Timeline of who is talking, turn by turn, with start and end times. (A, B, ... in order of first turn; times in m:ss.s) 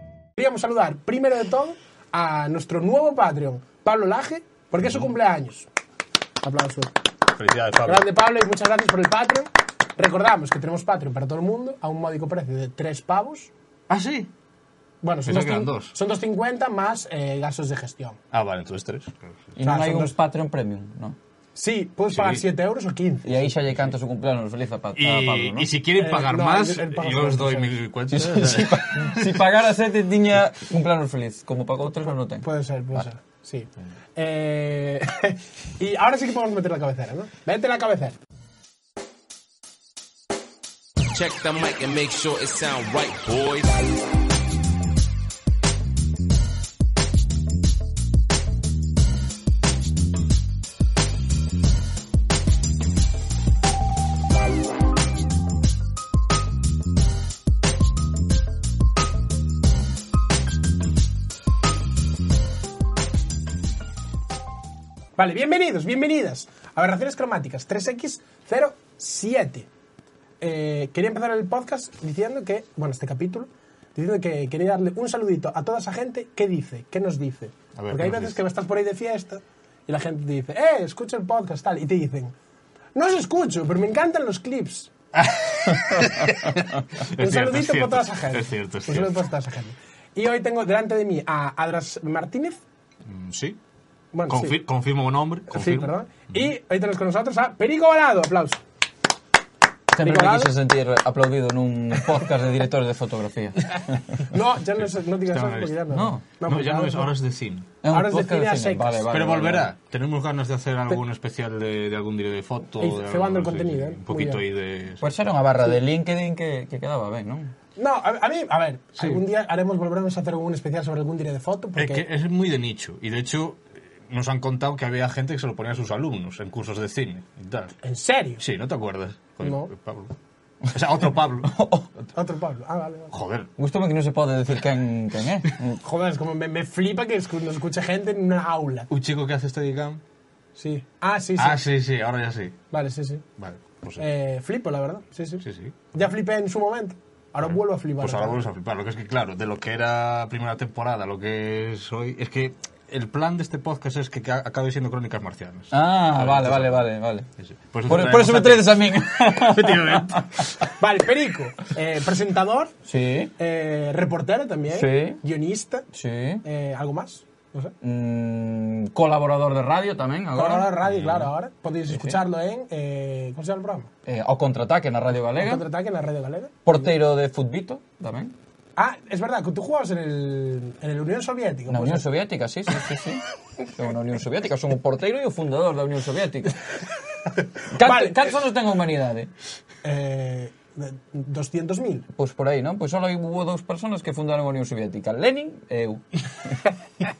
0:00.4-0:05.7 A
0:06.4-0:07.0 A
0:07.3-0:08.1 B
0:07.8-0:13.5 A
0:13.9-0:14.3 B
0:15.0-0:18.2 A
0:15.2-0:16.0 B
0:18.3-0:19.5 B
0:19.6-0:21.2 C
0:19.6-0:20.1 A
0:21.6-0:23.3 A
0:22.1-0:22.4 B
0:23.2-0:25.7 C
0:24.9-0:29.4 B
0:26.0-0:27.8 A
0:28.1-0:32.4 C
0:32.4-0:38.2 A
0:41.1-0:43.7 D
1:05.2-1:09.7 A
1:10.4-1:22.3 A
1:17.8-1:18.4 B
1:22.9-1:24.9 A
1:25.1-1:29.3 B
1:27.0-1:32.6 A
1:33.0-1:33.6 B
1:34.1-1:34.6 A
1:34.3-1:36.4 B
1:35.5-1:38.6 A
1:39.9-1:44.2 C
1:40.0-1:40.5 A
1:44.2-1:47.1 A
1:44.8-1:45.8 B
1:45.9-1:46.2 C
1:46.4-1:47.7 B
1:47.8-1:49.7 C
1:47.8-1:49.1 A
1:49.1-1:55.1 B
1:52.8-1:54.4 A
1:55.0-1:57.5 C
1:57.8-2:02.0 A
1:59.0-1:59.2 B
2:01.8-2:07.8 B
2:07.8-2:08.4 A
2:08.4-2:10.2 B
2:09.4-2:09.7 A
2:10.7-2:11.6 B
2:11.4-2:11.9 C
2:12.1-2:13.1 A
2:13.1-2:13.5 B
2:13.6-2:15.8 C
2:15.8-2:18.9 A
2:18.9-2:20.0 B
2:20.6-2:21.7 A
2:21.4-2:22.6 B
2:22.7-2:23.2 A
2:23.4-2:24.0 B
2:24.0-2:28.4 A
2:25.4-2:25.8 B
2:27.4-2:40.5 B
2:35.7-2:37.3 C
2:37.9-2:40.3 C
2:40.8-2:42.7 A
2:42.8-2:43.3 C
2:43.4-2:45.8 A
2:44.7-2:45.2 C
2:45.9-2:46.4 C
2:46.4-2:47.7 A
2:47.8-2:50.8 C
2:50.3-2:53.9 A
2:50.8-2:51.3 B
2:51.9-2:52.2 C
2:54.0-2:55.6 C
2:55.3-2:56.6 A
2:56.6-2:58.3 C
2:58.8-3:02.1 A
3:01.7-3:06.8 C
3:07.6-3:09.3 C
3:07.7-3:08.3 A
3:09.8-3:12.1 A
3:12.1-3:16.6 C